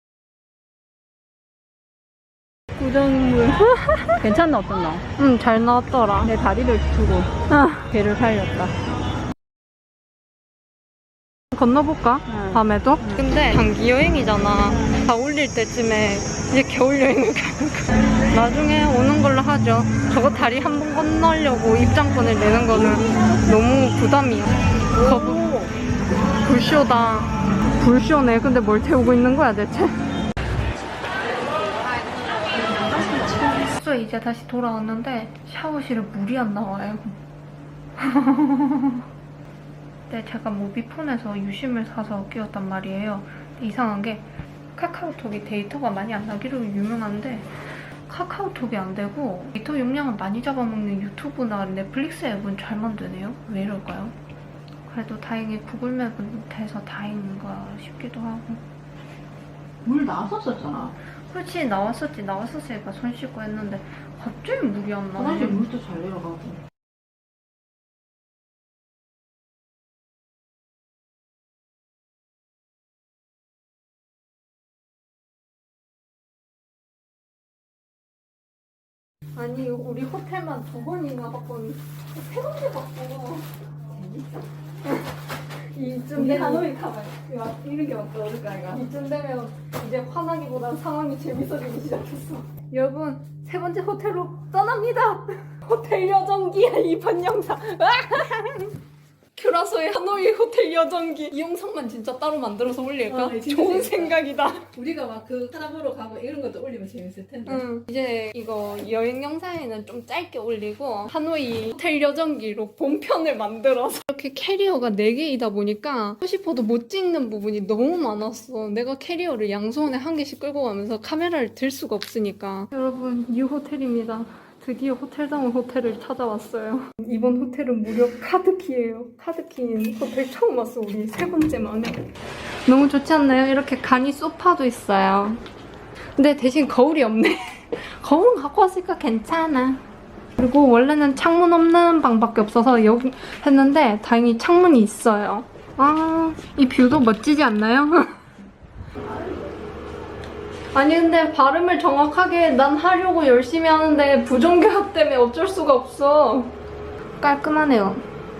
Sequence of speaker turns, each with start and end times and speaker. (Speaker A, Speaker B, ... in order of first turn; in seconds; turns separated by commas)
Speaker A: 2.8-5.0, Speaker B: 3.7-4.1, Speaker B: 5.2-6.3, Speaker A: 6.2-7.3, Speaker B: 7.5-7.9, Speaker A: 7.9-8.7, Speaker B: 11.5-25.4, Speaker A: 12.2-13.3, Speaker A: 22.7-23.5, Speaker A: 24.9-25.7, Speaker B: 26.4-30.0, Speaker A: 32.4-33.7, Speaker B: 33.8-37.1, Speaker B: 38.0-39.0, Speaker B: 40.1-47.5, Speaker B: 48.1-54.1, Speaker B: 54.9-58.6, Speaker A: 59.8-60.9, Speaker B: 61.1-65.6, Speaker A: 65.1-66.6, Speaker B: 79.3-83.5, Speaker A: 83.9-84.4, Speaker B: 84.8-85.1, Speaker B: 85.7-86.7, Speaker A: 86.1-88.8, Speaker B: 88.7-98.7, Speaker B: 99.3-104.7, Speaker A: 103.1-104.2, Speaker A: 104.7-107.6, Speaker B: 107.5-132.1, Speaker B: 132.7-135.4, Speaker B: 136.2-139.8, Speaker B: 140.4-148.2, Speaker B: 150.7-156.5, Speaker B: 157.2-158.0